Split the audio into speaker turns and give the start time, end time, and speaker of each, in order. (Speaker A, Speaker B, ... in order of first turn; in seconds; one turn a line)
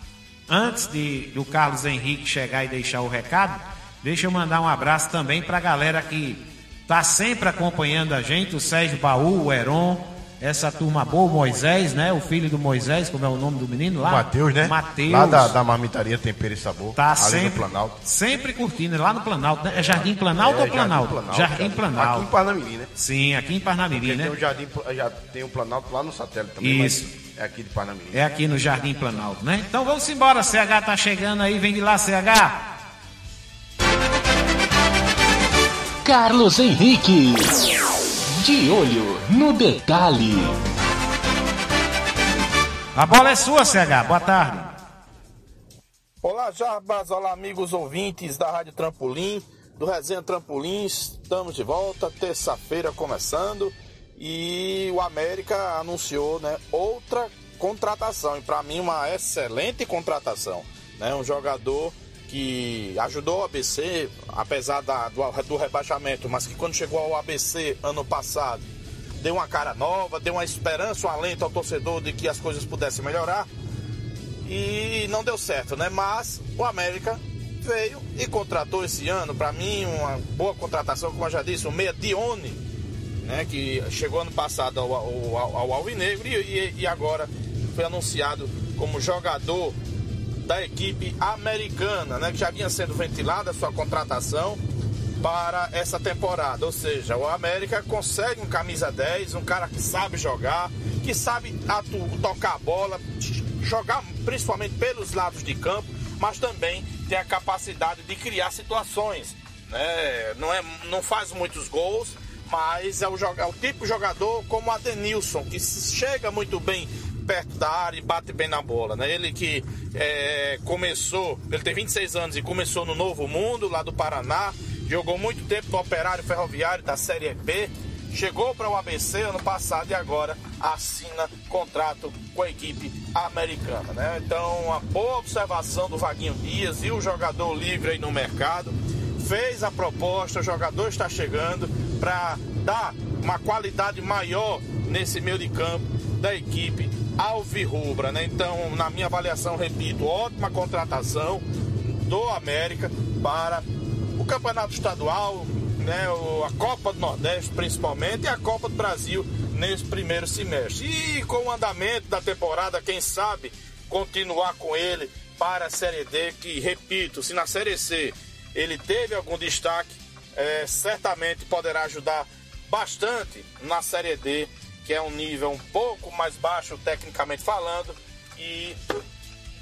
Speaker A: 0.5-15.5
Speaker B: 14.0-17.9
Speaker A: 16.9-22.3
Speaker B: 19.7-22.9
Speaker A: 22.9-24.4
Speaker B: 23.9-28.2
Speaker A: 26.6-27.1
Speaker A: 28.1-32.6
Speaker C: 36.0-37.7
Speaker C: 38.3-40.6
Speaker A: 42.9-44.7
Speaker D: 46.2-68.6
Speaker D: 69.2-73.5
Speaker D: 74.4-82.6
Speaker D: 83.2-89.8
Speaker D: 90.4-94.6
Speaker D: 95.2-151.4
Speaker D: 152.0-153.6
Speaker D: 154.2-178.8